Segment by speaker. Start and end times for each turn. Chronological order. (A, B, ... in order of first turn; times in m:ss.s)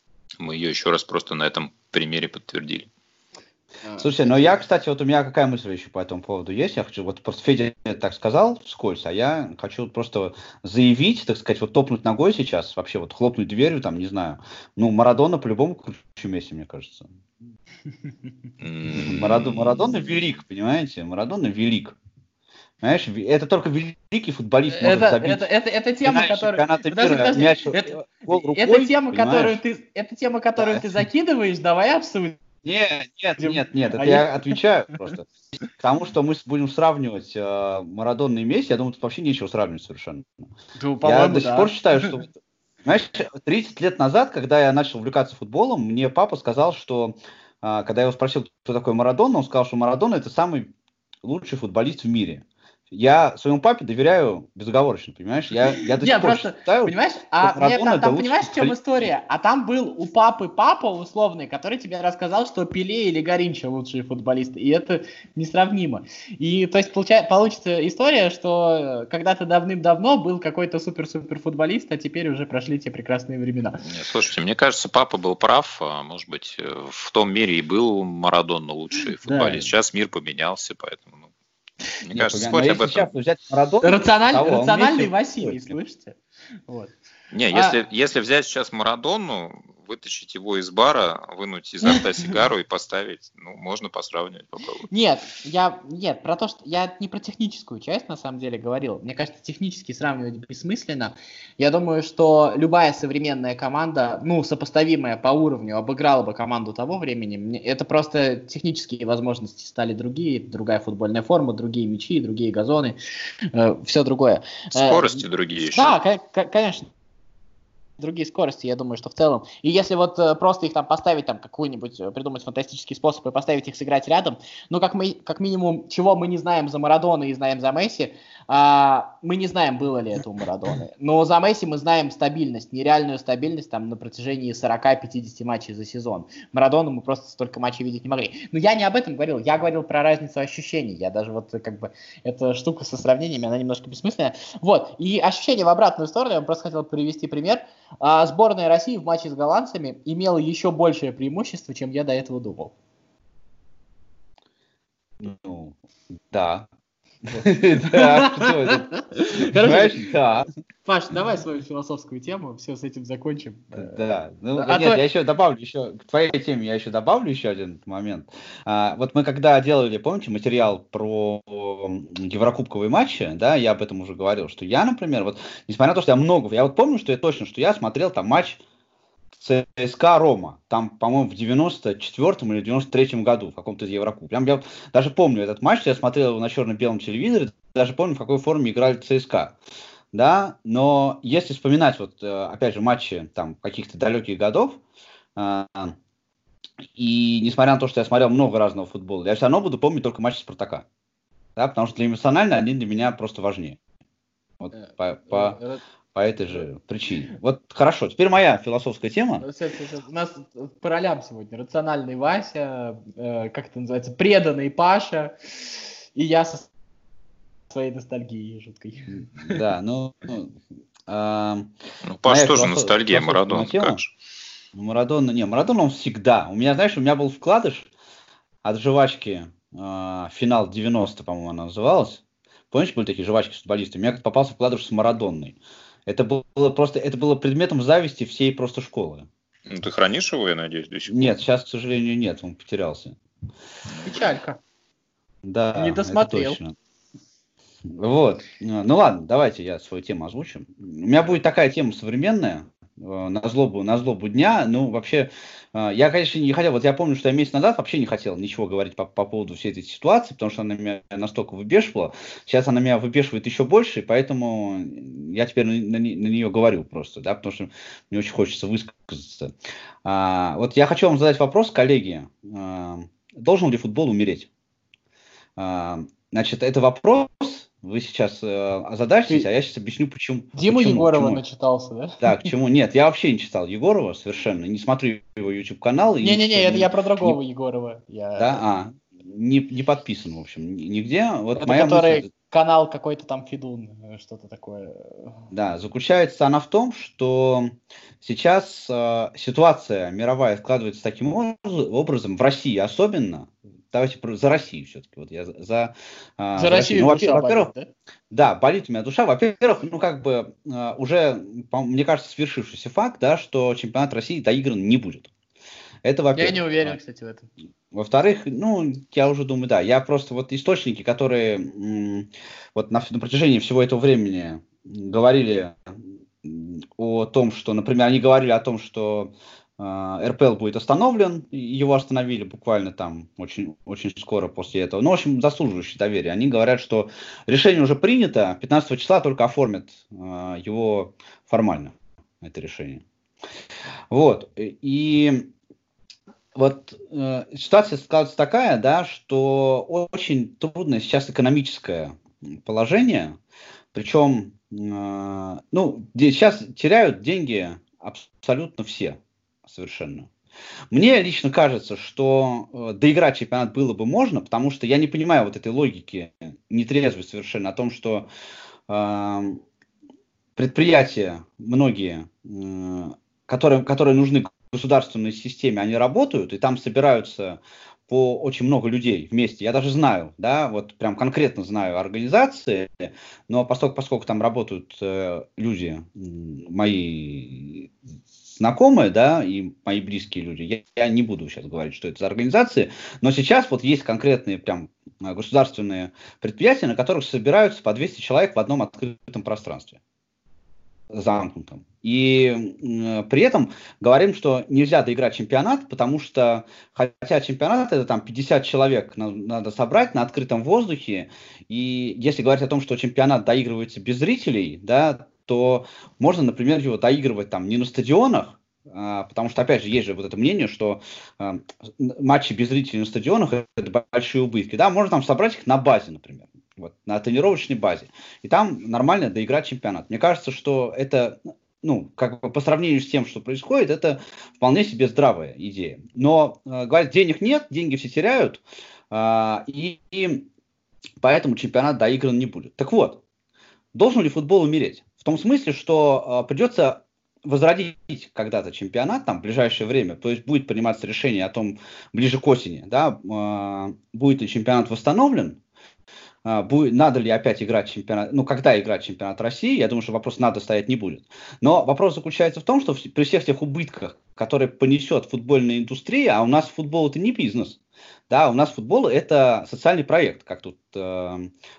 0:00.4-0:02.9 A
0:03.9-0:04.6 B
0:04.0-0:17.1 C
0:18.6-0:19.9 A
0:18.9-0:22.0 C
0:22.8-0:25.5 C
0:24.7-0:32.4 B
0:26.0-0:29.6 C
0:30.6-0:30.8 C
0:32.6-0:40.3 C
0:33.4-0:34.3 B
0:40.8-0:42.2 B
0:41.0-0:42.3 C
0:42.8-0:58.8 C
0:55.8-1:13.8 B
1:13.8-1:21.3 A
1:19.2-1:19.7 B
1:22.0-1:23.1 A
1:22.2-1:25.8 C
1:23.8-1:26.2 B
1:26.7-1:26.9 B
1:27.3-1:34.9 A
1:34.9-1:53.0 B
1:53.5-1:56.9 B
1:54.7-1:56.0 A
1:58.0-2:32.7 B
2:35.2-2:35.8 C
2:36.3-2:36.7 C
2:37.3-2:40.5 C
2:37.8-2:40.1 B
2:40.8-2:44.0 B
2:43.8-2:58.6 C
2:44.6-2:45.0 B
2:59.4-3:09.6 C
3:10.1-3:14.8 C
3:15.4-3:16.0 C
3:17.0-3:20.8 C
3:21.6-3:23.8 C
3:24.6-3:25.6 C
3:24.7-3:25.8 B
3:26.1-3:29.5 C
3:29.4-3:36.7 B
3:37.7-3:39.6 B
3:39.4-3:41.7 C
3:42.1-3:44.1 A
3:42.2-3:44.0 C
3:44.8-3:47.9 C
3:48.6-3:59.3 C
3:59.7-4:01.4 A
4:01.1-4:03.2 C
4:04.0-4:04.6 B
4:05.4-4:06.8 C
4:05.8-4:06.6 B
4:07.9-4:34.5 C
4:35.6-4:41.4 C
4:40.5-4:42.5 B
4:42.2-4:47.4 C
4:46.2-4:48.6 B
4:48.4-4:52.3 C
4:51.6-4:55.4 B
4:55.5-5:07.7 C
5:06.6-5:07.9 B
5:08.3-5:15.3 C
5:16.0-5:17.0 C
5:16.4-5:17.5 B
5:17.9-5:25.8 C
5:26.4-5:43.0 C
5:44.1-5:45.5 C
5:46.6-5:53.4 C
5:53.9-6:00.3 C
6:00.9-6:08.3 C
6:08.9-6:09.6 C
6:10.6-6:27.9 C
6:28.5-6:40.0 C
6:41.1-7:20.5 C
7:21.2-7:23.2 C
7:23.9-7:35.6 C
7:36.4-7:51.5 C